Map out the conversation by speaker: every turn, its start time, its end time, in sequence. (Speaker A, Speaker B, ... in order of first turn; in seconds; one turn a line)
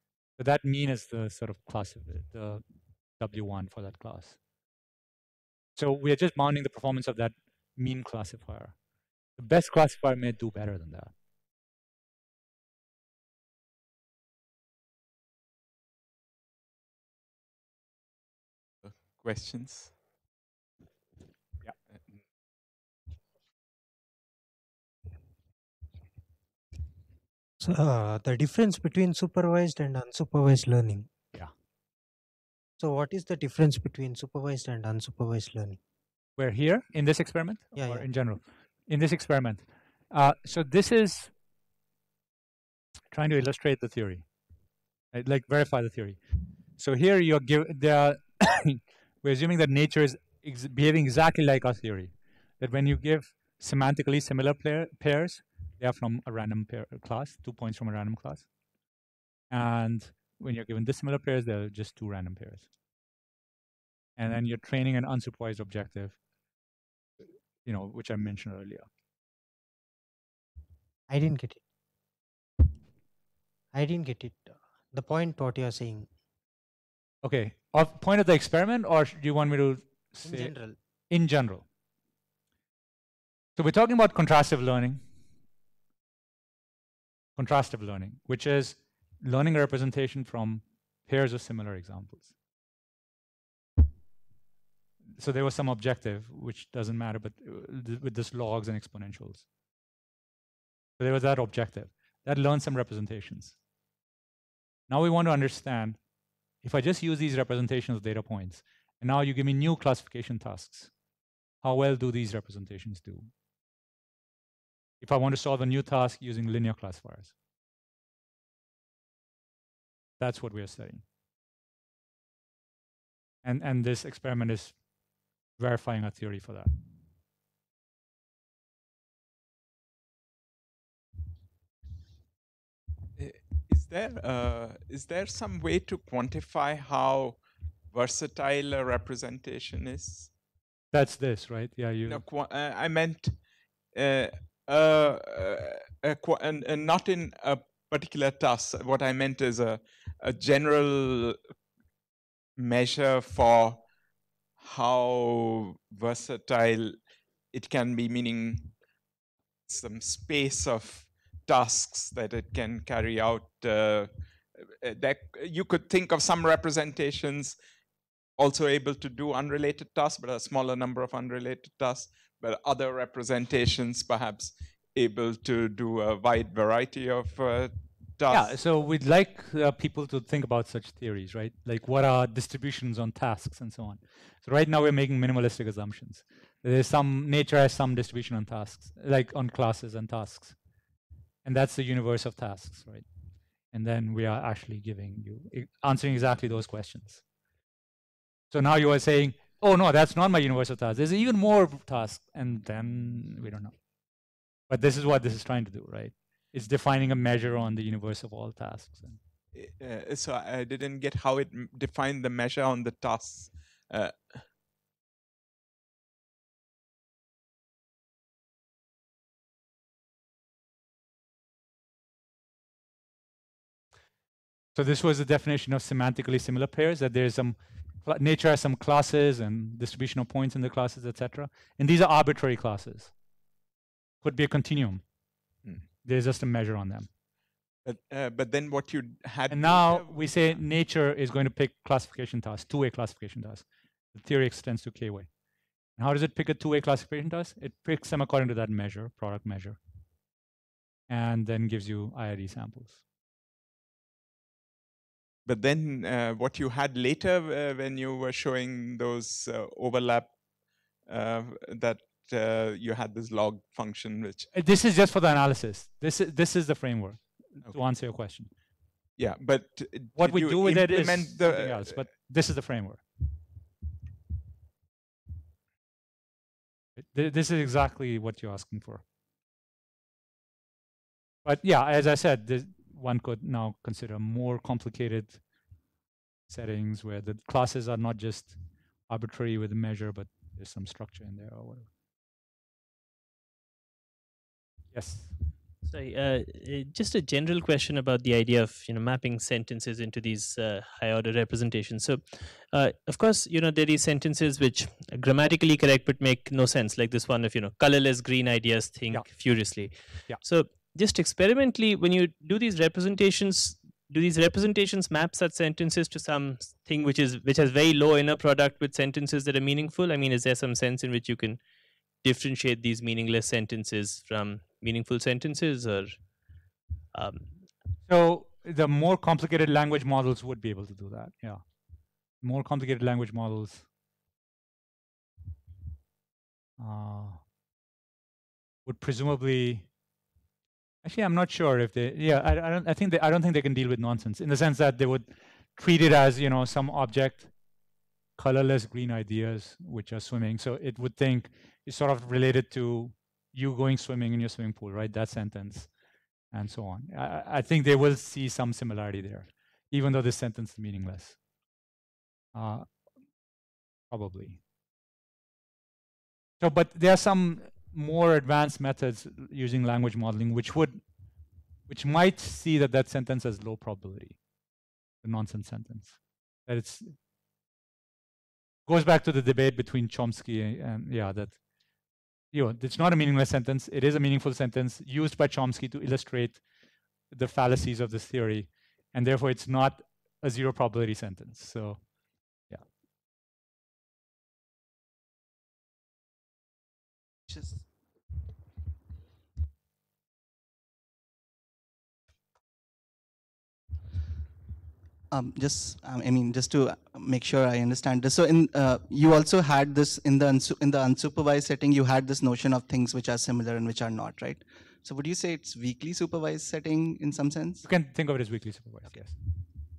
Speaker A: 0.4-2.6
Speaker A: 3.2-4.4
Speaker A: 5.8-8.7
Speaker A: 9.4-11.1
Speaker B: 18.8-19.9
Speaker C: 27.6-31.1
Speaker C: 32.8-35.8
Speaker A: 36.4-41.3
Speaker C: 37.7-38.1
Speaker A: 43.1-44.2
Speaker A: 45.1-46.2
Speaker A: 46.8-58.5
Speaker A: 59.5-62.7
Speaker A: 64.2-66.2
Speaker A: 67.6-68.9
Speaker C: 71.1-71.6
Speaker C: 73.7-76.1
Speaker A: 77.2-81.6
Speaker C: 80.2-80.8
Speaker A: 83.6-85.0
Speaker A: 87.3-92.3
Speaker A: 95.2-99.5
Speaker A: 101.0-103.5
Speaker A: 104.9-106.0
Speaker A: 106.6-110.9
Speaker A: 111.6-113.3
Speaker A: 115.0-117.3
Speaker A: 120.2-121.0
Speaker A: 123.4-124.8
Speaker A: 125.6-126.7
Speaker B: 133.1-140.3
Speaker A: 140.9-142.2
Speaker B: 142.1-151.4
Speaker B: 152.6-153.8
Speaker B: 154.6-158.8
Speaker B: 159.7-167.6
Speaker B: 168.4-178.6
Speaker A: 178.3-190.6
Speaker A: 191.4-193.1
Speaker A: 193.7-197.2
Speaker A: 198.5-203.7
Speaker A: 204.7-209.2
Speaker B: 209.5-214.4
Speaker A: 224.7-233.1
Speaker A: 234.2-235.0
Speaker A: 236.0-237.1
Speaker B: 237.8-240.6
Speaker A: 239.5-245.3
Speaker A: 246.0-249.8
Speaker A: 251.1-253.0
Speaker B: 255.4-260.3
Speaker B: 261.0-264.5
Speaker A: 264.5-268.5
Speaker B: 269.2-272.1
Speaker A: 270.1-273.0
Speaker A: 277.0-279.0
Speaker A: 281.4-285.4
Speaker A: 286.5-291.9
Speaker A: 294.9-295.3
Speaker D: 295.8-321.6
Speaker A: 309.1-309.7
Speaker D: 322.2-326.2
Speaker D: 327.1-327.6
Speaker A: 328.1-331.6
Speaker A: 332.4-333.9
Speaker A: 336.8-337.4
Speaker A: 338.9-339.9
Speaker A: 341.0-347.5
Speaker A: 348.4-355.9
Speaker A: 356.5-361.4
Speaker A: 362.5-362.9
Speaker A: 364.1-364.6
Speaker A: 366.6-371.0
Speaker A: 371.9-374.4
Speaker A: 375.2-377.1
Speaker A: 378.9-381.6
Speaker A: 382.5-386.6
Speaker A: 387.3-392.0
Speaker E: 397.5-397.8
Speaker E: 405.3-417.9
Speaker A: 417.8-419.4